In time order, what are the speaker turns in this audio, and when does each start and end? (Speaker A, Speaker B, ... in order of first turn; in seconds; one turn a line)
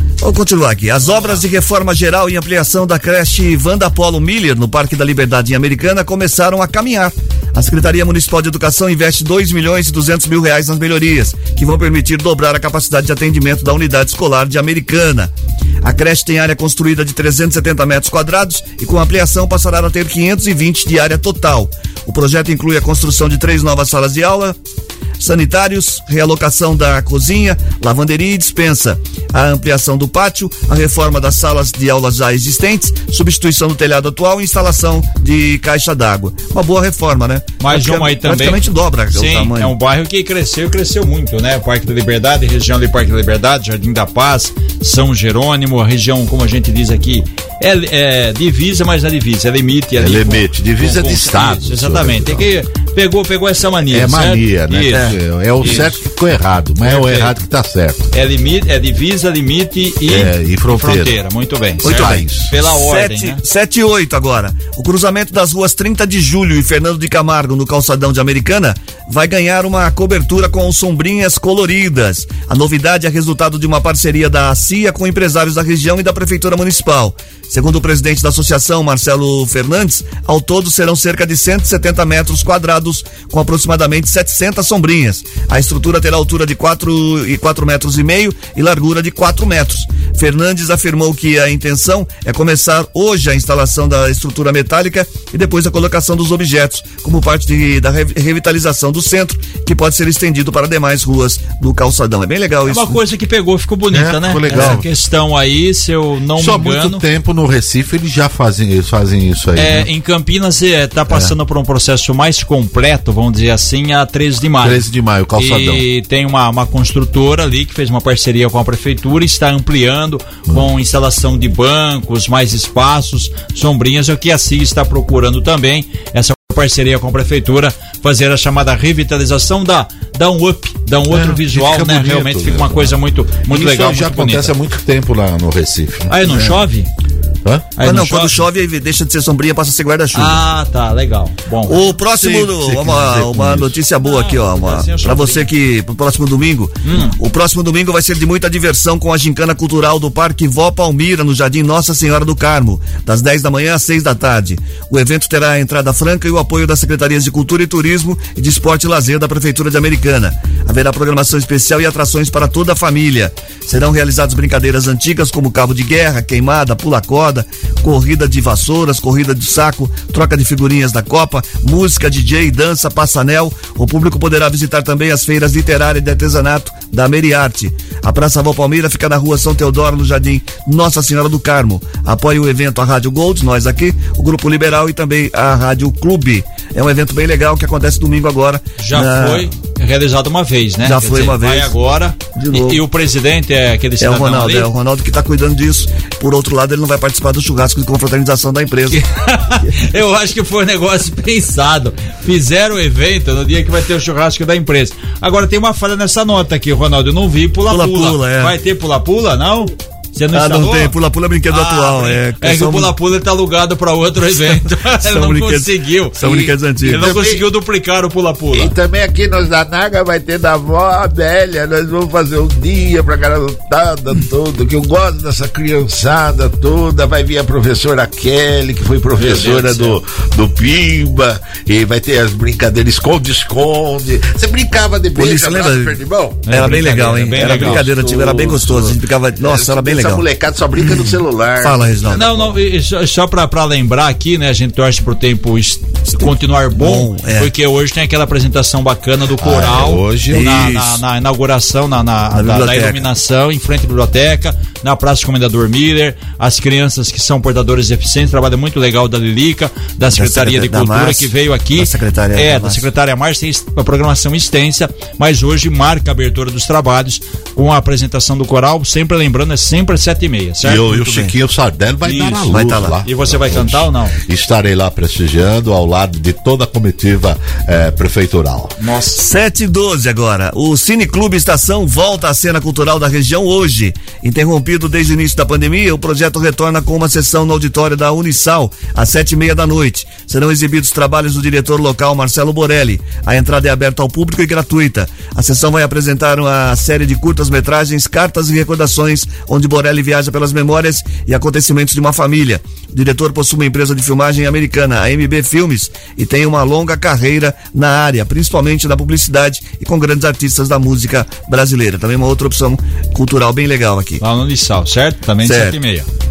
Speaker A: 0.2-24.6
Speaker B: 1.0-1.4
Speaker A: 25.2-39.7
Speaker B: 37.6-38.6
Speaker B: 39.1-56.0
Speaker C: 50.0-52.5
Speaker C: 53.9-58.1
Speaker B: 56.8-57.4
Speaker B: 58.1-63.4
Speaker C: 60.1-61.2
Speaker A: 61.8-62.2
Speaker C: 61.8-62.5
Speaker A: 62.8-103.0
Speaker B: 102.7-107.0
Speaker C: 103.9-104.9
Speaker A: 104.5-104.8
Speaker C: 106.4-109.9
Speaker B: 109.6-134.5
Speaker C: 114.6-115.8
Speaker C: 131.1-136.5
Speaker B: 136.1-136.9
Speaker C: 137.4-137.7
Speaker B: 137.8-138.4
Speaker A: 137.8-140.4
Speaker B: 140.1-141.9
Speaker A: 141.7-189.5
Speaker C: 142.0-143.8
Speaker B: 144.0-145.5
Speaker B: 146.8-147.2
Speaker B: 188.8-194.7
Speaker A: 190.8-191.7
Speaker A: 192.4-192.8
Speaker A: 194.0-199.0
Speaker B: 198.9-210.9
Speaker A: 207.7-208.6
Speaker A: 210.3-212.9
Speaker B: 211.5-216.2
Speaker A: 214.8-217.1
Speaker C: 216.2-217.5
Speaker B: 216.8-218.7
Speaker C: 218.5-236.5
Speaker B: 229.2-230.0
Speaker A: 235.2-236.0
Speaker B: 236.5-237.9
Speaker A: 236.5-240.3
Speaker C: 237.3-242.5
Speaker A: 241.6-242.3
Speaker B: 242.1-270.9
Speaker A: 246.2-247.5
Speaker C: 249.4-250.7
Speaker A: 250.3-251.0
Speaker A: 252.3-253.1
Speaker A: 260.1-262.9
Speaker C: 270.6-278.8
Speaker A: 270.9-271.3
Speaker B: 272.1-272.5
Speaker A: 272.5-273.0
Speaker B: 273.1-274.2
Speaker B: 278.8-279.2
Speaker A: 279.2-314.2
Speaker B: 314.2-316.1
Speaker A: 315.4-315.8